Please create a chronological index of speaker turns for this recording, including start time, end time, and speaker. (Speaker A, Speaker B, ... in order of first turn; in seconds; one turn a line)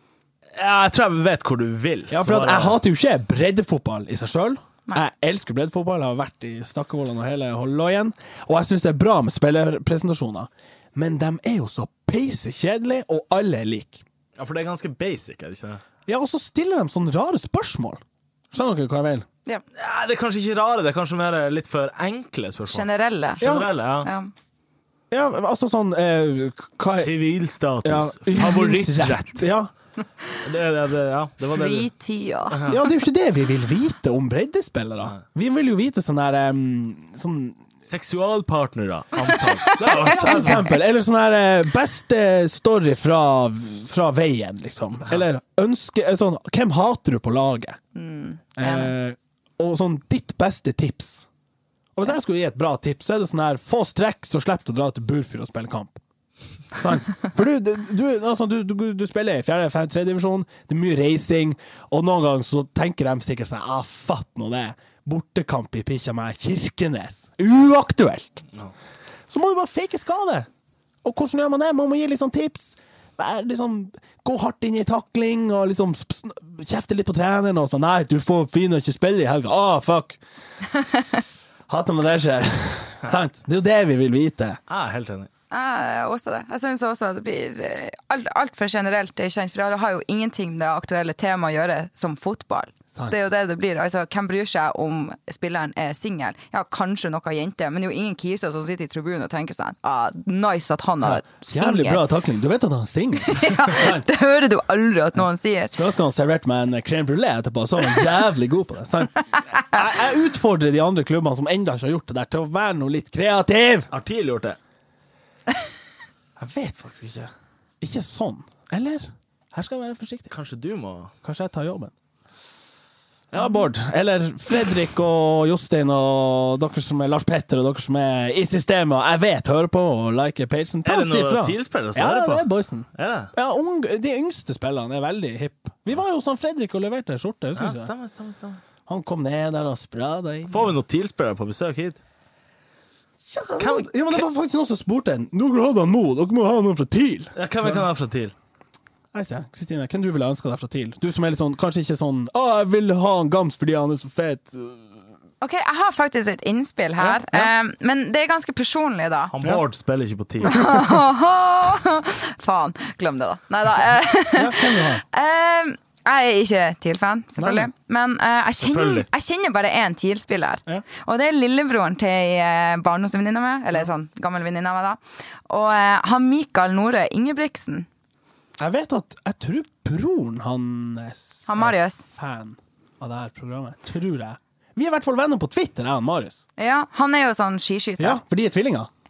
Speaker A: 0.5-2.8
Speaker B: 2.1-14.0
Speaker A: 14.4-15.8
Speaker B: 16.1-18.0
Speaker B: 18.5-19.3
Speaker A: 19.7-24.1
Speaker C: 22.7-23.4
Speaker B: 23.4-23.7
Speaker C: 24.0-24.3
Speaker B: 25.1-27.1
Speaker A: 26.9-29.4
Speaker B: 27.8-29.7
Speaker A: 30.4-31.9
Speaker C: 31.5-32.6
Speaker A: 32.5-32.8
Speaker B: 32.6-37.6
Speaker A: 37.8-40.7
Speaker C: 39.3-40.6
Speaker B: 39.9-47.8
Speaker C: 47.9-48.9
Speaker B: 48.6-51.3
Speaker B: 52.0-56.0
Speaker B: 56.7-68.4
Speaker B: 69.3-70.5
Speaker B: 71.0-80.2
Speaker B: 81.7-84.6
Speaker A: 84.7-85.3
Speaker C: 85.5-102.0
Speaker B: 101.0-104.1
Speaker C: 103.2-105.7
Speaker B: 105.7-113.9
Speaker A: 113.9-114.6
Speaker B: 116.4-120.3
Speaker A: 120.3-121.1
Speaker B: 121.2-121.9
Speaker B: 123.3-137.9
Speaker A: 130.8-132.4
Speaker A: 133.0-133.3
Speaker A: 137.6-138.6
Speaker B: 138.9-140.8
Speaker A: 140.5-142.0
Speaker B: 143.2-147.8
Speaker A: 143.6-144.3
Speaker A: 147.3-148.3
Speaker B: 149.1-155.0
Speaker C: 155.4-159.3
Speaker B: 157.0-157.5
Speaker A: 159.3-160.7
Speaker C: 160.4-177.9
Speaker B: 164.3-165.0
Speaker B: 167.4-167.7
Speaker A: 168.6-169.1
Speaker B: 178.6-186.4
Speaker C: 181.5-182.0
Speaker C: 186.6-188.2
Speaker B: 188.0-188.9